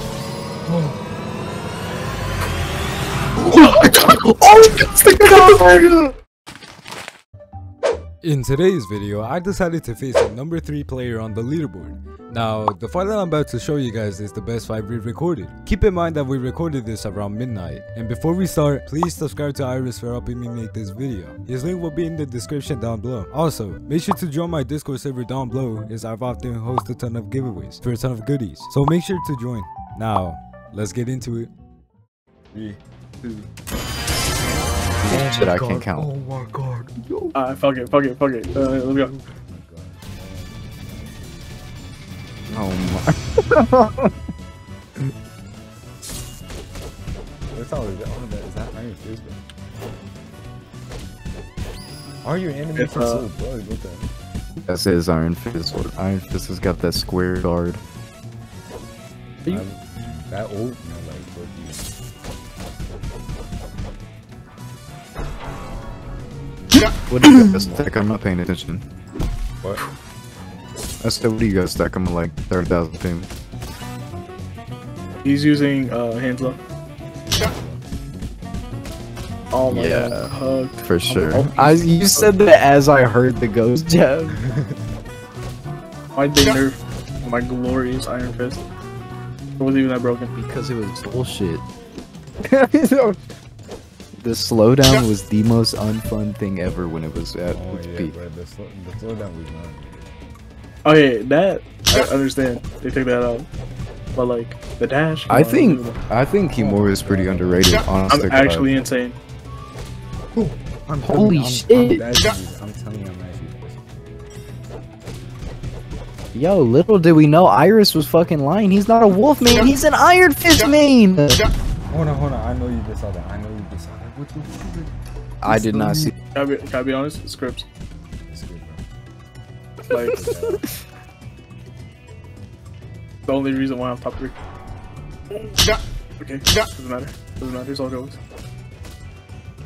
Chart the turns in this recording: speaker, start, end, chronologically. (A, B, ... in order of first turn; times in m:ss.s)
0:00.7-0:01.0 A
0:03.4-0:06.1 B
0:08.2-0:31.5 A
0:32.5-0:32.8 A
0:35.0-0:36.1 B
0:35.1-0:37.3 A
0:37.4-0:39.1 C
0:38.7-0:41.4 A
0:42.5-0:44.1 B
0:47.5-0:49.4 A
0:52.2-0:54.1 A
0:52.8-0:53.3 C
0:54.6-0:57.8 B
0:59.5-1:01.9 A
1:07.1-1:08.8 B
1:11.0-1:13.3 B
1:15.2-1:16.6 C
1:17.2-1:17.8 A
1:19.5-1:22.3 C
1:19.7-1:24.4 B
1:24.3-1:24.8 A
1:26.2-1:28.6 C
1:29.6-1:30.3 C
1:30.3-1:31.6 B
1:32.4-1:33.2 B
1:34.2-1:38.2 B
1:37.5-1:40.1 A
1:40.8-1:43.5 C
1:44.2-1:46.0 C
1:45.3-1:48.7 B
1:46.5-1:47.8 A
1:48.1-1:49.2 C
1:50.3-1:54.2 A
1:51.0-1:52.0 B
1:56.3-2:01.4 B
2:01.9-2:04.9 A
2:05.4-2:06.1 B
2:05.5-2:06.1 A
2:06.3-2:07.7 C
2:08.3-2:08.8 A
2:09.9-2:10.2 C
2:10.0-2:10.7 A
2:10.3-2:10.5 B
2:13.3-2:14.4 C
2:15.3-2:18.2 C